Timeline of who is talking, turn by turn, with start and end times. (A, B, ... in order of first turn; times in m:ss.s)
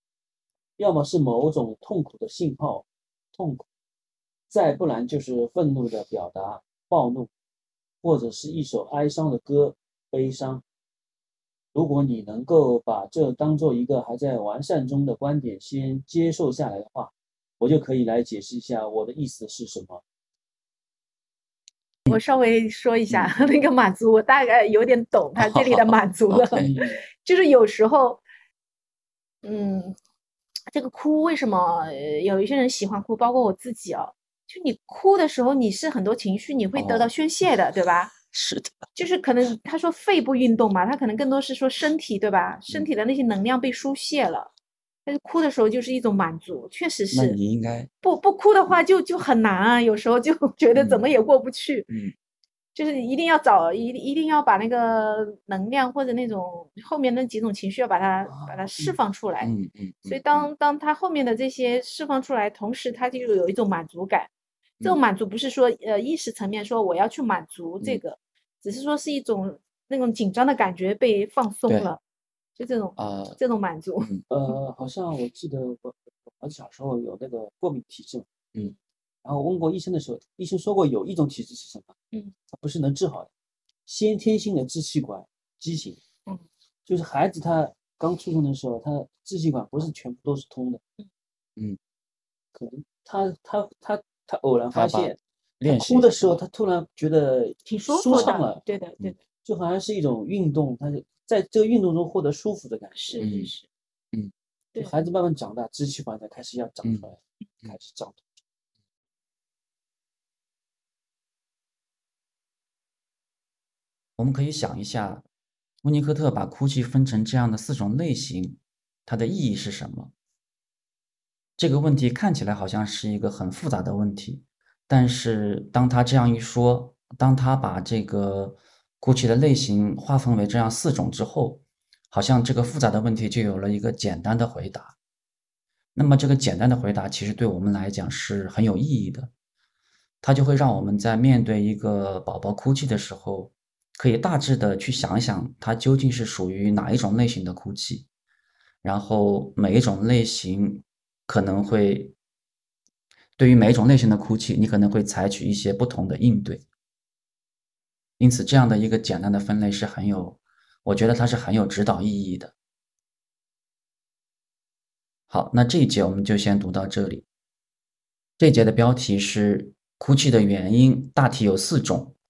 0:00.8-0:03.7 A
0:04.5-0:07.3 A
0:08.0-0:10.6 A
0:11.7-0:20.0 A
0:22.1-0:26.7 B
0:23.1-0:23.3 C
0:25.4-0:26.7 C
0:26.6-0:27.0 A
0:27.2-0:28.2 B
0:29.4-0:30.0 B
0:30.7-0:38.1 B
0:36.7-0:37.1 C
0:38.3-0:38.8 C
0:39.0-0:44.5 B
0:45.0-0:47.4 B
0:47.1-0:47.9 C
0:48.0-0:51.9 B
0:50.7-0:51.1 C
0:51.9-0:52.1 C
0:52.7-0:59.5 B
0:58.2-0:59.0 A
0:59.4-1:00.5 C
1:00.0-1:04.3 B
1:04.8-1:12.0 B
1:12.6-1:14.1 B
1:13.0-1:13.4 C
1:14.3-1:18.3 A
1:19.2-1:21.9 A
1:22.5-1:23.3 A
1:23.8-1:26.0 A
1:26.8-1:30.8 A
1:32.5-1:38.6 A
1:34.7-1:36.4 C
1:37.7-1:39.2 B
1:38.1-1:38.4 C
1:39.4-1:43.2 A
1:42.9-1:43.7 B
1:43.2-1:43.5 C
1:44.8-1:48.4 A
1:46.8-1:47.1 C
1:54.2-1:55.2 C
1:55.8-2:00.1 C
2:01.6-2:14.9 C
2:15.9-2:19.3 C
2:20.2-2:28.1 C
2:28.8-2:32.1 C
2:33.4-2:36.6 C
2:38.2-2:42.5 C
2:45.3-2:47.2 C
2:48.4-2:52.1 C